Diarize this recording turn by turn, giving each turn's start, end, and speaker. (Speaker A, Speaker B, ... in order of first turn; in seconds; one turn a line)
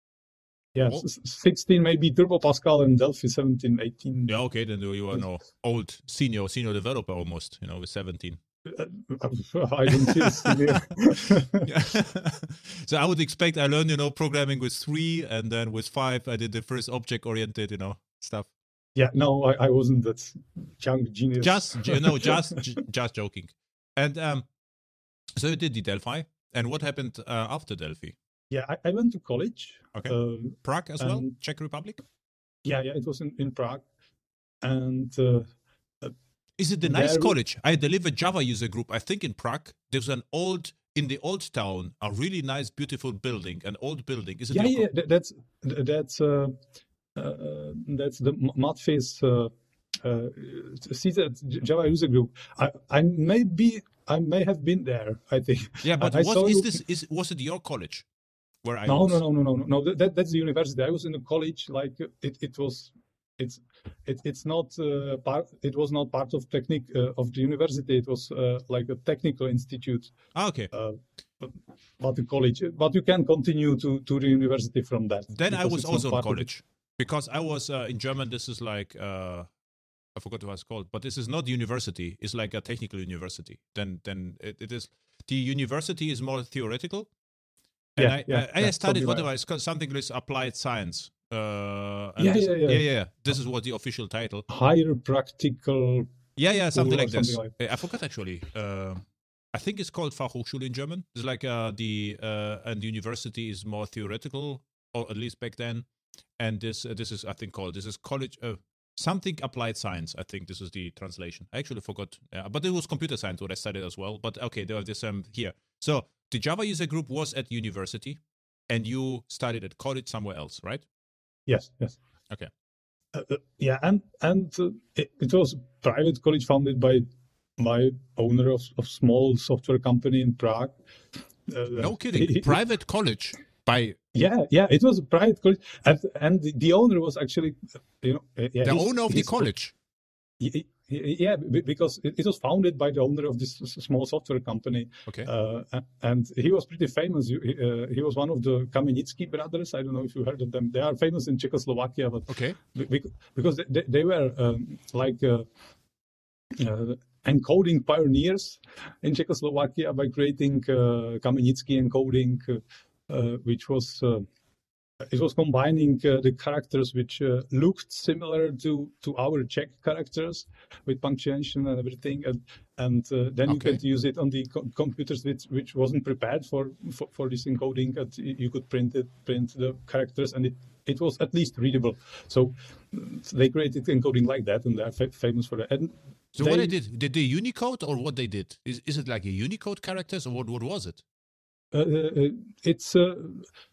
Speaker A: 0.7-4.3
Speaker B: 4.3-8.4
Speaker A: 8.7-11.7
Speaker B: 9.9-10.9
Speaker B: 11.6-18.5
Speaker A: 18.9-22.4
Speaker B: 21.4-24.5
Speaker B: 25.4-28.1
Speaker A: 28.5-31.3
Speaker B: 29.9-32.0
Speaker A: 32.6-33.9
Speaker A: 34.6-35.5
Speaker B: 36.6-44.8
Speaker A: 36.8-37.3
Speaker A: 44.5-46.5
Speaker A: 47.1-56.8
Speaker B: 55.8-58.0
Speaker B: 58.6-59.2
Speaker A: 58.9-70.1
Speaker B: 70.3-70.7
Speaker A: 70.7-76.4
Speaker B: 75.3-79.5
Speaker B: 80.2-87.1
Speaker B: 88.0-94.5
Speaker A: 88.0-89.2
Speaker A: 92.2-92.8
Speaker A: 94.5-96.1
Speaker B: 96.4-105.9
Speaker A: 96.7-97.5
Speaker B: 106.4-120.8
Speaker A: 121.5-122.0
Speaker A: 123.1-127.0
Speaker A: 127.6-130.8
Speaker A: 131.4-132.6
Speaker B: 131.7-134.0
Speaker A: 134.1-139.5
Speaker B: 138.6-139.7
Speaker A: 140.4-155.5
Speaker B: 152.3-152.6
Speaker A: 156.5-164.3
Speaker A: 165.0-186.7
Speaker B: 173.5-173.8
Speaker B: 186.3-191.0
Speaker A: 191.7-193.5